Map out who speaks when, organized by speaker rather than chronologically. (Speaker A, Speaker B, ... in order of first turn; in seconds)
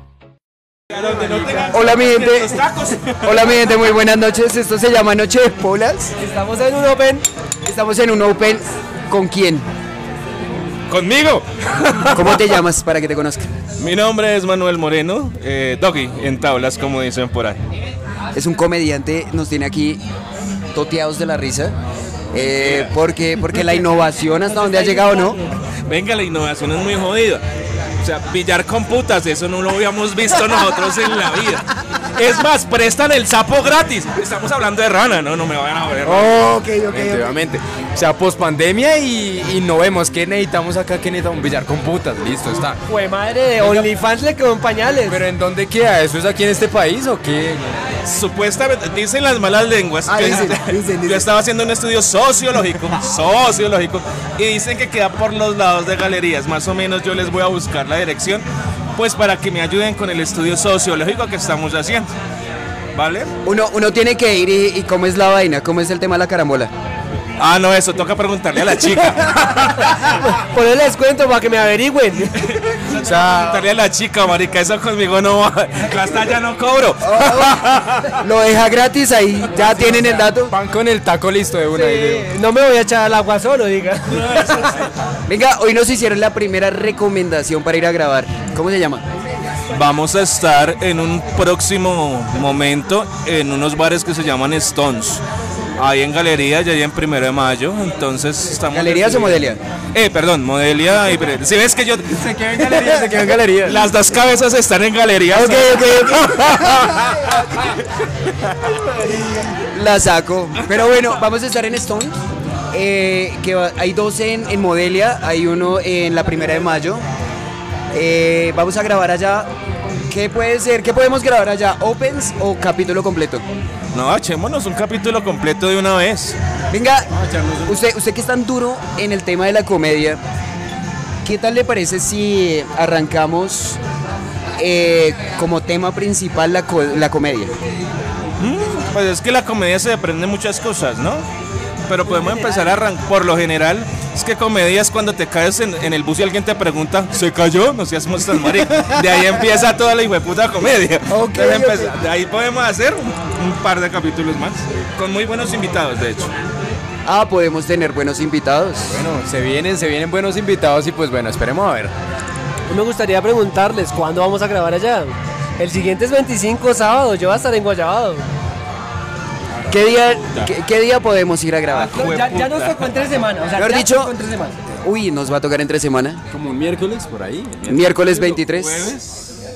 Speaker A: 0.9-3.6, 10.9-12.6, 13.8-17.6, 22.4-22.9, 25.9-27.4, 28.0-36.4, 48.0-62.1, 62.9-63.3, 67.4-70.1, 72.3-78.1, 89.7-95.2, 95.8-102.2, 103.6-107.3, 123.9-126.4, 138.4-141.3, 141.9-156.3, 171.7-172.9
Speaker B: 1.6-2.6, 3.2-6.1, 7.7-9.7, 12.1-13.5, 18.3-20.0, 20.7-21.8, 22.3-25.4, 36.3-37.3, 50.1-51.3, 63.5-66.7, 77.0-80.5, 85.3-89.0, 98.7-99.6, 105.3-107.1, 109.1-112.2, 112.7-117.0, 117.9-119.5, 120.1-123.4, 126.7-127.1, 127.7-130.2, 131.2-133.8, 134.6-137.5, 151.1-152.0, 157.1-159.0, 169.7-172.1, 173.6-174.1, 174.8-176.2, 177.7-179.0
Speaker C: 6.2-7.3, 25.0-25.4, 42.9-45.2, 70.0-72.4, 81.7-84.8, 142.1-142.8, 162.7-168.2, 171.9-174.6
Speaker D: 36.1-42.8, 45.1-47.8, 73.0-73.6, 80.4-82.3, 102.1-103.8, 127.2-127.6, 158.9-161.9, 176.3-179.0